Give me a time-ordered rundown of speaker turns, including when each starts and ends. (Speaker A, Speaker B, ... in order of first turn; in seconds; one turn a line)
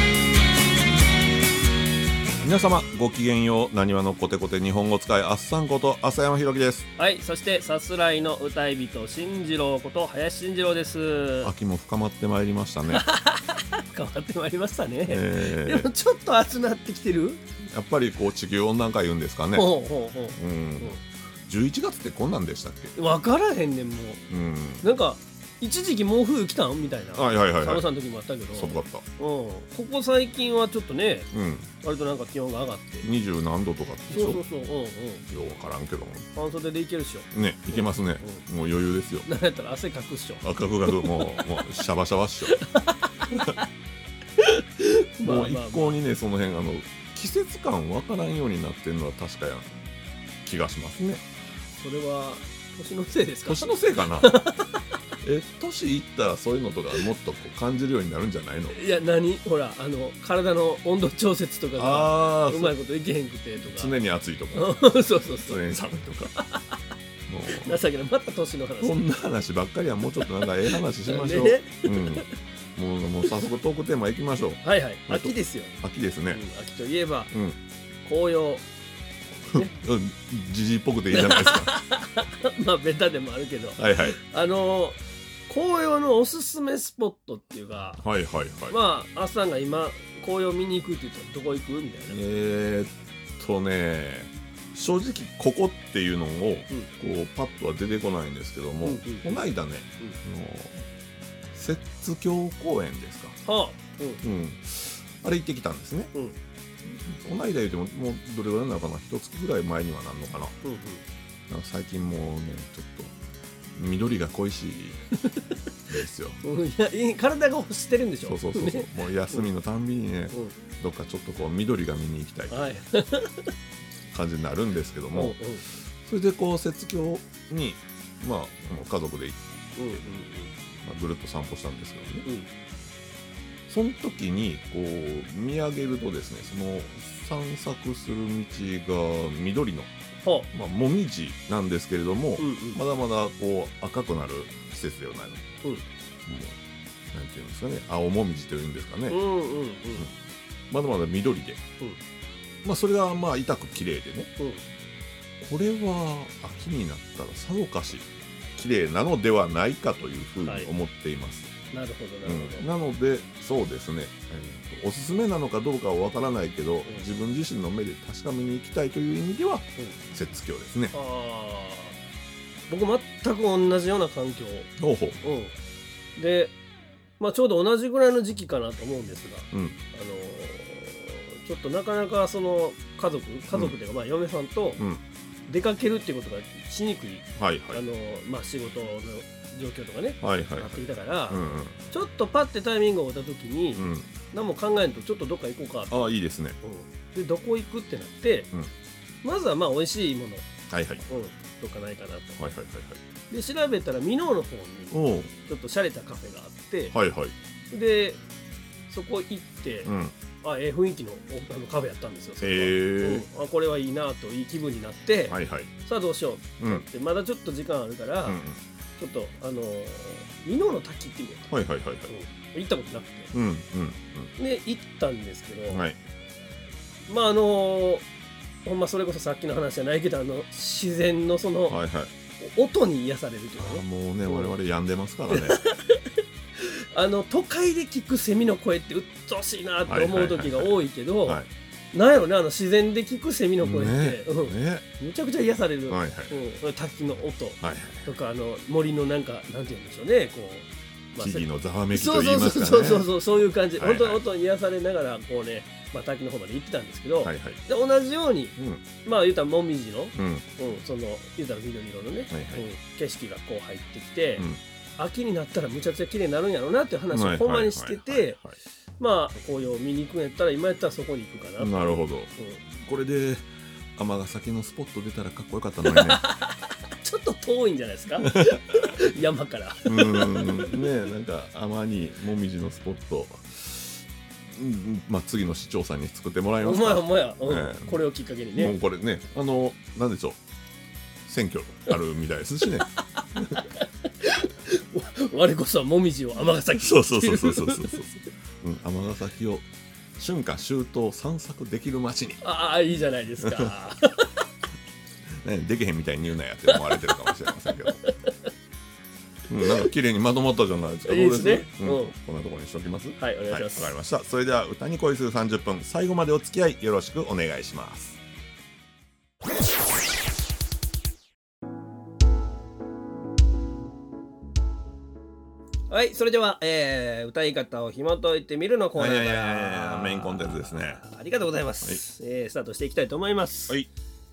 Speaker A: 2.4-6.9
Speaker B: 7.0-11.5
Speaker A: 11.4-13.0
Speaker B: 12.9-17.4
Speaker A: 15.1-15.9
Speaker A: 17.6-19.7
Speaker B: 19.5-21.0
Speaker A: 20.4-22.9
Speaker B: 22.9-24.2
Speaker A: 24.3-24.8
Speaker B: 24.8-31.3
Speaker A: 27.1-27.8
Speaker A: 28.5-29.0
Speaker A: 31.3-31.7
Speaker B: 31.8-33.1
Speaker A: 33.0-34.4
Speaker B: 34.1-35.2
Speaker A: 35.3-36.3
Speaker B: 36.3-38.4
Speaker A: 37.3-39.3
Speaker B: 39.2-41.2
Speaker A: 40.4-42.6
Speaker B: 42.5-43.6
Speaker B: 44.4-46.0
Speaker A: 45.2-49.8
Speaker A: 50.4-51.2
Speaker B: 51.8-54.8
Speaker A: 53.5-54.3
Speaker A: 55.2-58.8
Speaker B: 58.7-64.0
Speaker A: 61.8-62.7
Speaker A: 63.6-64.8
Speaker B: 64.5-65.6
Speaker A: 65.4-66.3
Speaker B: 66.4-66.8
Speaker A: 67.3-67.8
Speaker B: 67.5-69.0
Speaker A: 68.8-76.4
Speaker B: 71.0-72.3
Speaker B: 74.6-75.7
Speaker B: 76.3-77.3
Speaker A: 77.3-77.6
Speaker B: 78.0-78.6
Speaker A: 79.5-81.7
Speaker B: 81.1-88.0
Speaker A: 83.8-84.2
Speaker A: 88.0-88.8
Speaker B: 88.7-92.2
Speaker A: 92.1-100.8
Speaker B: 98.8-99.4
Speaker A: 101.5-103.4
Speaker B: 103.4-104.2
Speaker A: 104.2-106.1
Speaker A: 106.9-110.5
Speaker B: 110.6-111.0
Speaker A: 111.5-113.1
Speaker A: 113.7-115.0
Speaker A: 115.9-116.4
Speaker B: 116.4-119.5
Speaker A: 118.2-122.6
Speaker B: 122.5-123.5
Speaker A: 124.1-125.4
Speaker B: 125.1-125.6
Speaker A: 126.0-129.4
Speaker B: 129.8-130.5
Speaker A: 130.8-132.2
Speaker A: 133.7-139.9
Speaker A: 140.5-145.4
Speaker B: 142.4-142.8
Speaker A: 146.2-146.6
Speaker A: 147.1-149.2
Speaker B: 149.1-150.1
Speaker A: 150.7-151.6
Speaker A: 152.6-154.3
Speaker B: 154.4-154.6
Speaker A: 155.4-161.5
Speaker B: 160.4-160.7
Speaker B: 161.7-162.7
Speaker A: 162.2-170.9
Speaker B: 170.9-172.0
Speaker B: 172.7-174.7
Speaker A: 174.8-175.2
Speaker B: 175.2-175.5
Speaker B: 176.2-176.5
Speaker B: 177.2-184.8
Speaker A: 179.5-179.8
Speaker B: 185.5-196.1
Speaker A: 187.4-187.8
Speaker A: 190.2-191.8
Speaker A: 193.8-194.1
Speaker A: 195.9-196.6
Speaker B: 196.6-198.5
Speaker B: 199.2-200.5
Speaker A: 200.7-201.0
Speaker B: 201.1-202.5
Speaker A: 202.4-203.0
Speaker B: 203.3-206.9
Speaker A: 204.9-205.3
Speaker A: 206.9-207.3
Speaker B: 207.7-208.2
Speaker B: 208.9-218.4
Speaker A: 209.8-210.1
Speaker A: 212.4-213.2
Speaker A: 215.3-215.7
Speaker A: 216.6-216.8
Speaker A: 218.2-218.6
Speaker B: 219.0-221.5
Speaker A: 221.5-222.1
Speaker B: 222.1-223.3
Speaker A: 223.3-224.3
Speaker B: 224.4-225.8
Speaker A: 225.7-226.0
Speaker B: 227.1-228.0
Speaker B: 228.6-231.8
Speaker A: 231.7-232.1
Speaker B: 232.4-234.5
Speaker A: 233.6-235.6
Speaker B: 235.3-241.4
Speaker A: 239.8-241.5
Speaker B: 241.9-264.4
Speaker A: 243.6-244.8
Speaker A: 245.9-246.3
Speaker A: 247.6-248.1
Speaker A: 251.2-253.1
Speaker A: 253.8-254.2
Speaker A: 257.2-257.6
Speaker A: 258.6-258.8
Speaker A: 260.1-260.4
Speaker A: 262.3-262.6
Speaker B: 265.0-268.4
Speaker A: 267.1-268.6
Speaker B: 269.0-272.6
Speaker A: 271.6-276.2
Speaker B: 275.9-280.9
Speaker A: 278.2-278.9
Speaker A: 279.9-288.0
Speaker B: 286.6-288.8
Speaker A: 288.5-290.4
Speaker A: 291.2-293.5
Speaker B: 293.2-298.0
Speaker A: 296.8-299.6
Speaker A: 300.2-302.4
Speaker B: 302.4-304.3
Speaker A: 303.4-303.7
Speaker A: 305.4-308.0
Speaker B: 307.8-308.5
Speaker A: 309.5-318.2
Speaker B: 309.6-309.9
Speaker B: 311.1-312.1
Speaker B: 313.2-313.9
Speaker B: 325.9-333.8
Speaker A: 328.9-331.0